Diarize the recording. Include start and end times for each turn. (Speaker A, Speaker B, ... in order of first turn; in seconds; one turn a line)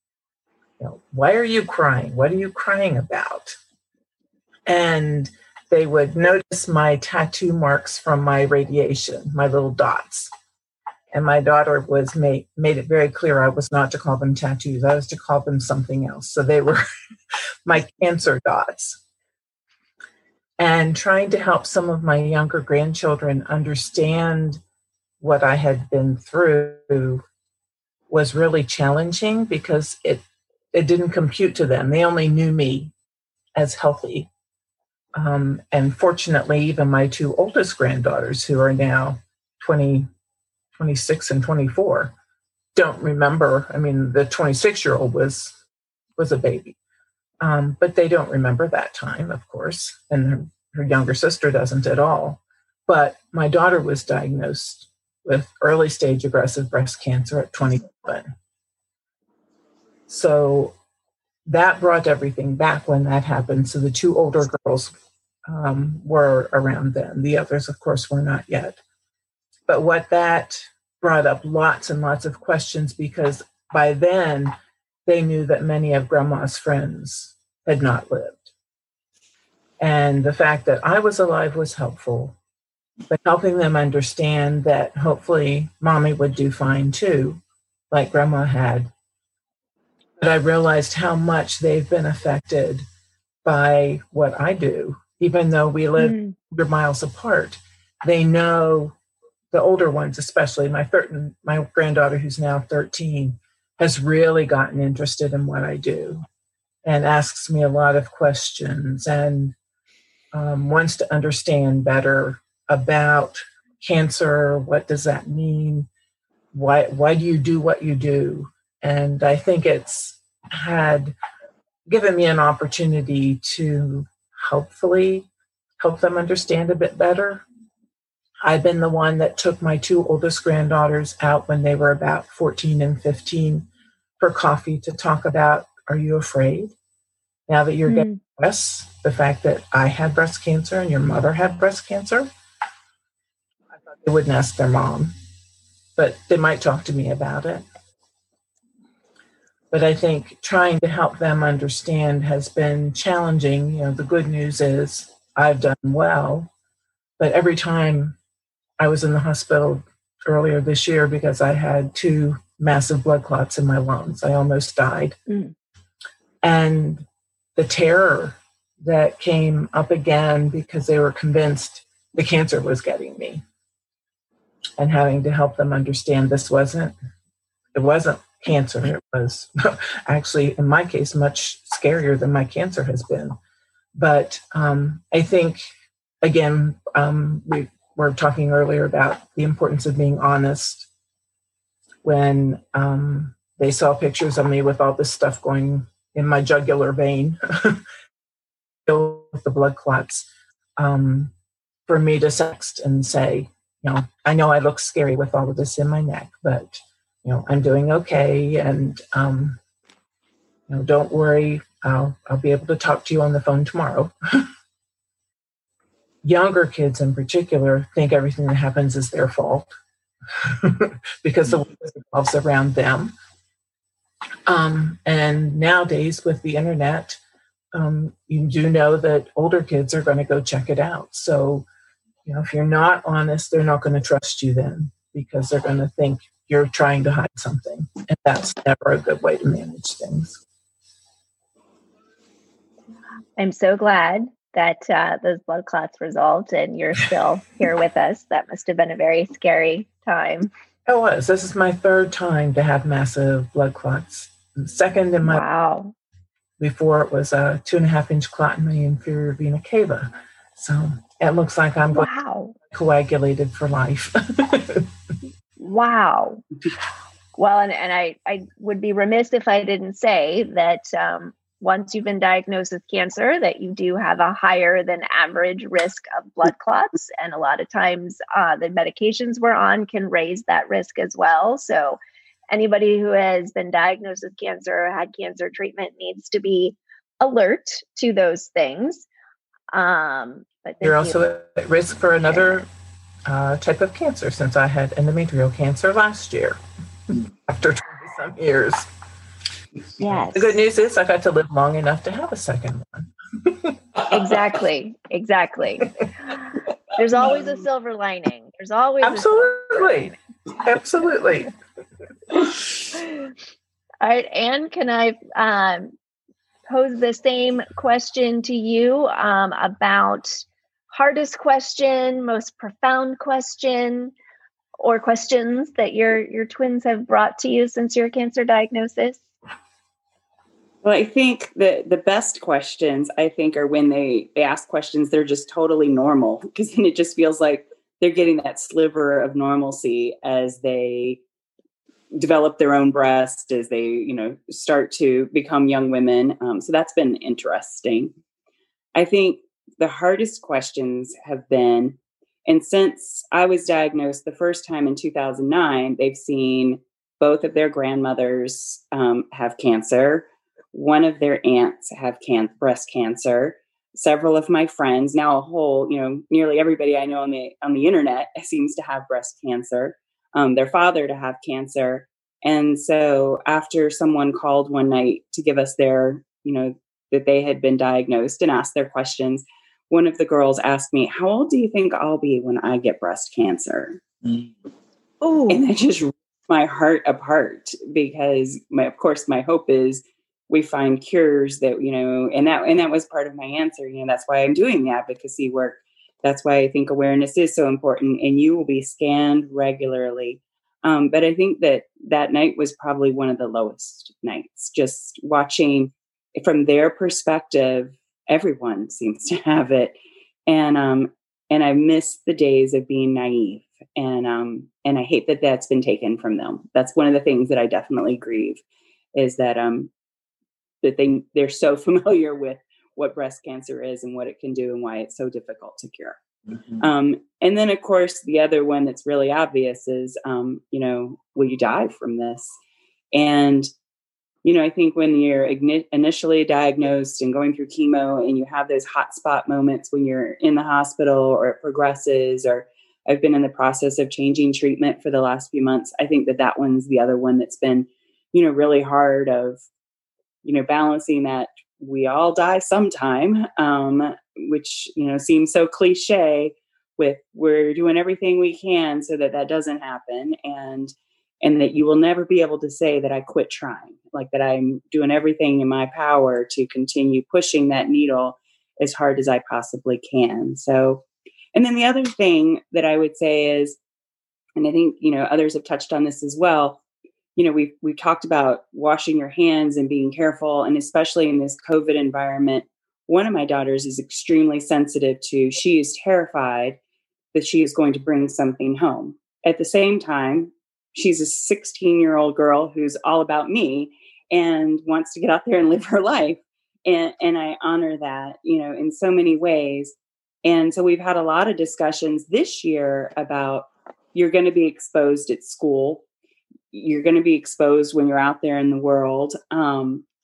Speaker A: 0.8-3.6
Speaker A: 4.7-10.3
Speaker A: 11.1-16.8
Speaker A: 17.6-19.0
Speaker A: 20.6-24.6
Speaker A: 25.2-27.2
Speaker A: 28.1-32.9
Speaker A: 33.5-34.3
Speaker A: 35.2-40.1
Speaker A: 40.8-42.1
Speaker A: 42.8-45.6
Speaker A: 46.2-46.8
Speaker A: 47.4-58.3
Speaker A: 60.1-60.8
Speaker A: 61.5-64.9
Speaker A: 65.5-68.8
Speaker A: 69.7-74.5
Speaker A: 75.1-78.5
Speaker A: 79.8-82.4
Speaker A: 83.1-87.4
Speaker A: 87.9-88.9
Speaker A: 90.2-92.8
Speaker A: 93.5-99.0
Speaker B: 96.0-96.3
Speaker A: 99.5-106.2
Speaker A: 106.8-109.5
Speaker A: 110.3-115.9
Speaker A: 116.5-121.2
Speaker A: 121.9-127.4
Speaker A: 128.4-133.7
Speaker A: 134.2-136.8
Speaker A: 137.5-142.3
Speaker B: 137.9-138.2
Speaker A: 144.0-145.1
Speaker A: 146.0-147.7
Speaker A: 149.7-156.5
Speaker A: 157.2-158.2
Speaker A: 158.8-165.2
Speaker A: 166.4-173.4
Speaker A: 174.8-176.9
Speaker A: 177.7-183.4
Speaker A: 184.0-185.6
Speaker A: 186.2-190.9
Speaker A: 192.0-197.8
Speaker A: 198.9-201.3
Speaker A: 201.9-209.6
Speaker A: 210.7-214.5
Speaker A: 216.2-219.7
Speaker A: 220.3-223.1
Speaker A: 224.5-227.2
Speaker A: 227.7-231.7
Speaker A: 232.2-240.4
Speaker B: 243.4-250.5
Speaker A: 250.9-255.4
Speaker B: 255.2-255.9
Speaker A: 256.6-262.1
Speaker B: 261.9-262.6
Speaker A: 262.7-264.9
Speaker B: 265.6-266.4
Speaker B: 267.4-282.0
Speaker B: 282.5-289.1
Speaker B: 289.7-291.2
Speaker A: 290.8-292.7
Speaker A: 293.3-296.6
Speaker A: 297.1-298.9
Speaker B: 300.0-300.6
Speaker A: 300.3-304.2
Speaker B: 304.1-310.1
Speaker A: 309.0-311.5
Speaker B: 312.9-313.3
Speaker B: 314.0-315.9
Speaker B: 316.7-324.1
Speaker B: 324.8-329.2
Speaker C: 330.8-341.2
Speaker C: 342.1-348.1
Speaker C: 348.9-384.0
Speaker B: 385.2-385.6
Speaker C: 385.5-409.9
Speaker C: 410.5-418.6
Speaker C: 419.1-419.9
Speaker C: 420.8-426.2
Speaker C: 426.8-432.6
Speaker C: 433.1-433.7
Speaker C: 434.4-449.6
Speaker C: 450.4-473.8
Speaker C: 474.6-476.8
Speaker C: 477.4-486.8
Speaker C: 487.3-506.1
Speaker C: 506.7-510.1